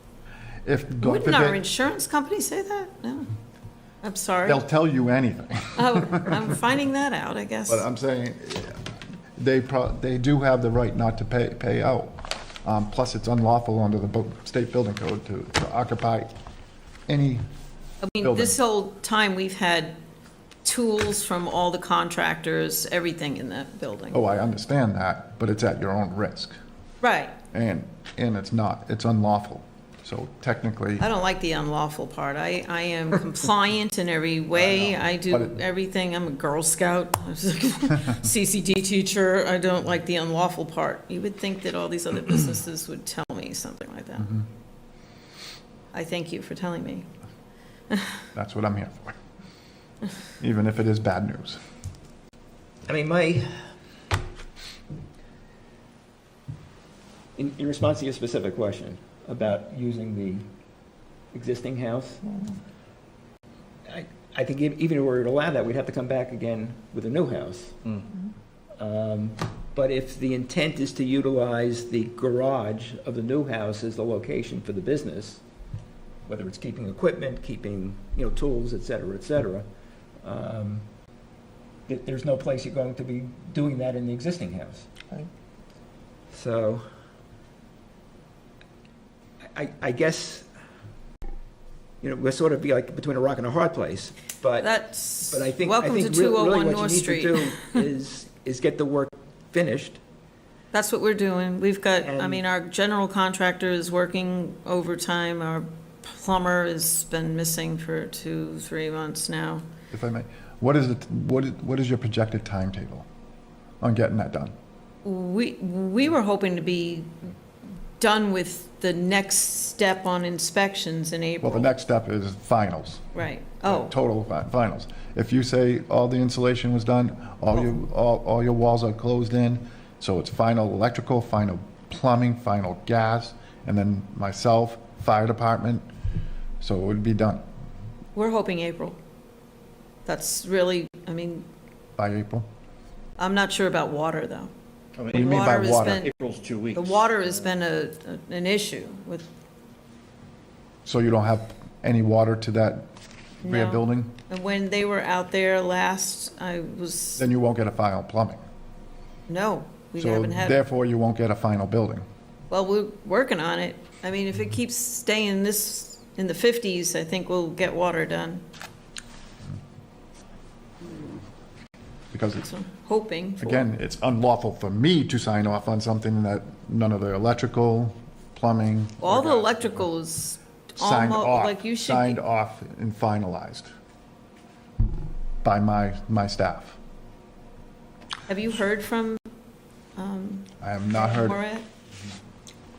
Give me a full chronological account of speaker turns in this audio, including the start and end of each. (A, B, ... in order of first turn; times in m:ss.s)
0:00.6-0:01.6 A
0:01.0-0:03.3 B
0:04.0-0:04.6 B
0:04.4-0:06.4 A
0:05.8-0:07.8 B
0:07.7-0:16.3 A
0:17.1-0:17.4 A
0:18.0-0:20.0 B
0:18.2-0:18.6 A
0:20.6-0:24.2 B
0:24.1-0:26.5 A
0:27.0-0:27.4 B
0:27.5-0:31.0 A
0:31.0-0:44.4 B
0:34.5-0:35.6 A
0:45.9-0:47.1 B
0:48.3-0:49.2 A
0:50.4-0:51.6 A
0:52.8-0:53.5 C
0:57.4-1:00.4 C
1:01.3-1:02.2 C
1:03.9-1:07.8 C
1:08.8-1:15.4 C
1:16.2-1:19.6 C
1:20.2-1:20.8 C
1:21.9-1:24.9 C
1:26.3-1:26.9 C
1:29.5-1:30.5 C
1:32.0-1:34.7 C
1:34.6-1:37.8 B
1:35.3-1:40.0 C
1:40.7-1:49.6 B
1:42.0-1:42.4 C
1:49.9-1:53.0 A
1:53.8-1:54.5 A
1:55.0-1:57.1 B
1:58.0-2:01.7 B
2:01.4-2:03.1 A
2:03.1-2:03.9 B
2:03.6-2:15.8 A
2:16.6-2:17.4 A
2:18.1-2:19.0 B
2:20.0-2:21.4 B
2:22.0-2:22.5 A
2:23.2-2:24.5 B
2:25.0-2:27.2 D
2:25.1-2:26.0 A
2:25.1-2:26.2 B
2:26.7-2:29.2 B
2:30.8-2:32.9 A
2:33.4-2:34.1 A
2:33.4-2:37.2 B
2:37.2-2:38.4 A
2:39.3-2:40.6 B
2:40.0-2:42.0 A
2:42.5-2:48.4 B
2:52.1-2:52.5 A
2:52.4-2:53.6 B
2:53.4-2:59.8 A
2:59.0-3:02.2 B
3:00.8-3:03.7 A
3:05.4-3:06.8 A
3:08.3-3:09.2 B
3:10.0-3:11.6 B
3:10.6-3:11.4 A